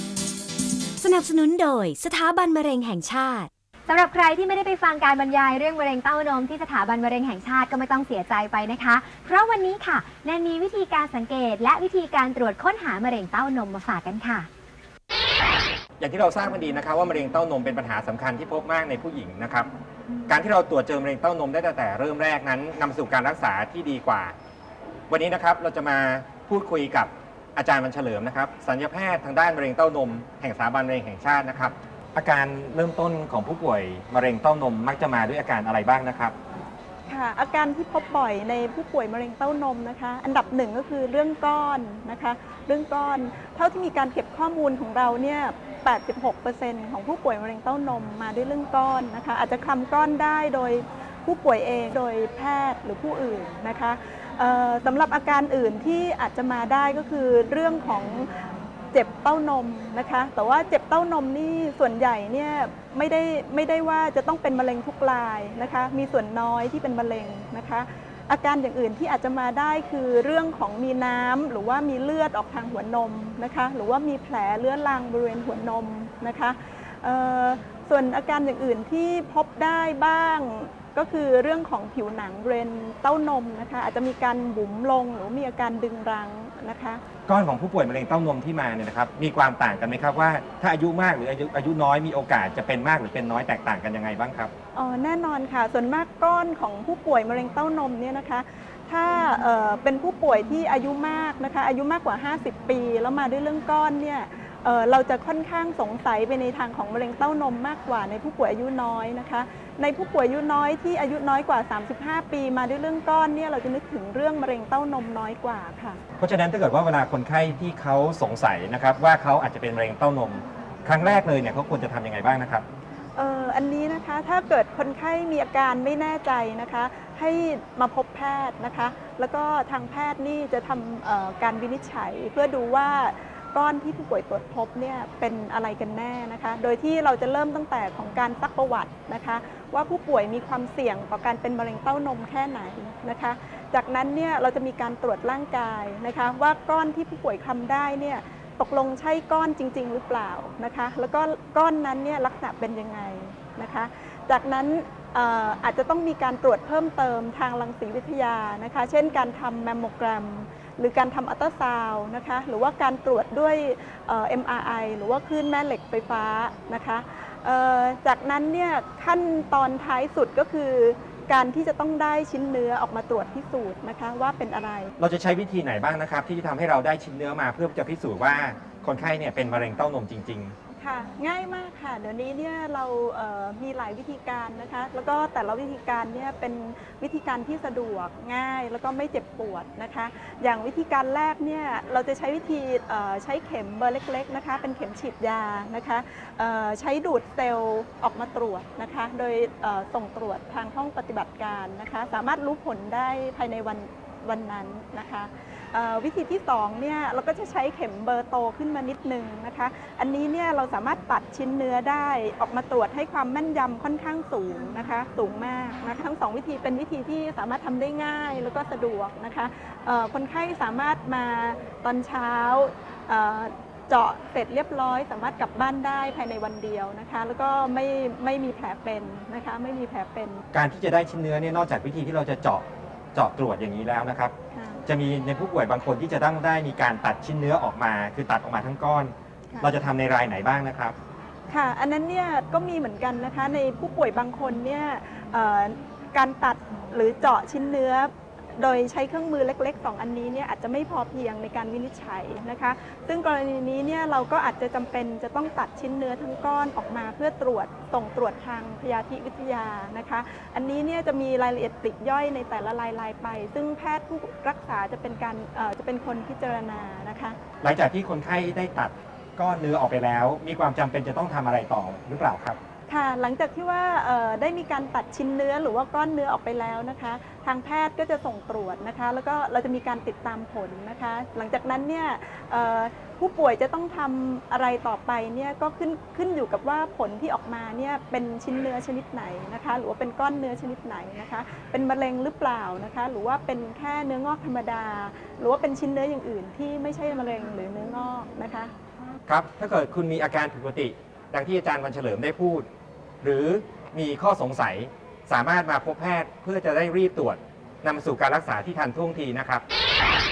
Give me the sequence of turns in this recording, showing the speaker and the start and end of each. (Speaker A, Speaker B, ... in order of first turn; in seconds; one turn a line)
Speaker A: 1.0-3.5
Speaker B: 1.0-2.0
Speaker B: 3.5-14.5
Speaker C: 16.0-19.7
Speaker C: 20.3-24.4
Speaker C: 25.1-36.4
Speaker D: 37.1-87.0
Speaker C: 87.3-94.5
Speaker D: 94.8-116.0
Speaker C: 116.2-122.7
Speaker D: 123.2-174.9
Speaker C: 175.0-180.6
Speaker D: 180.8-230.4
Speaker C: 230.5-234.3
Speaker D: 234.5-234.8
Speaker C: 234.9-241.0
Speaker D: 241.5-267.4
Speaker C: 267.6-272.6
Speaker D: 272.9-298.7
Speaker C: 299.3-302.7
Speaker C: 303.2-309.6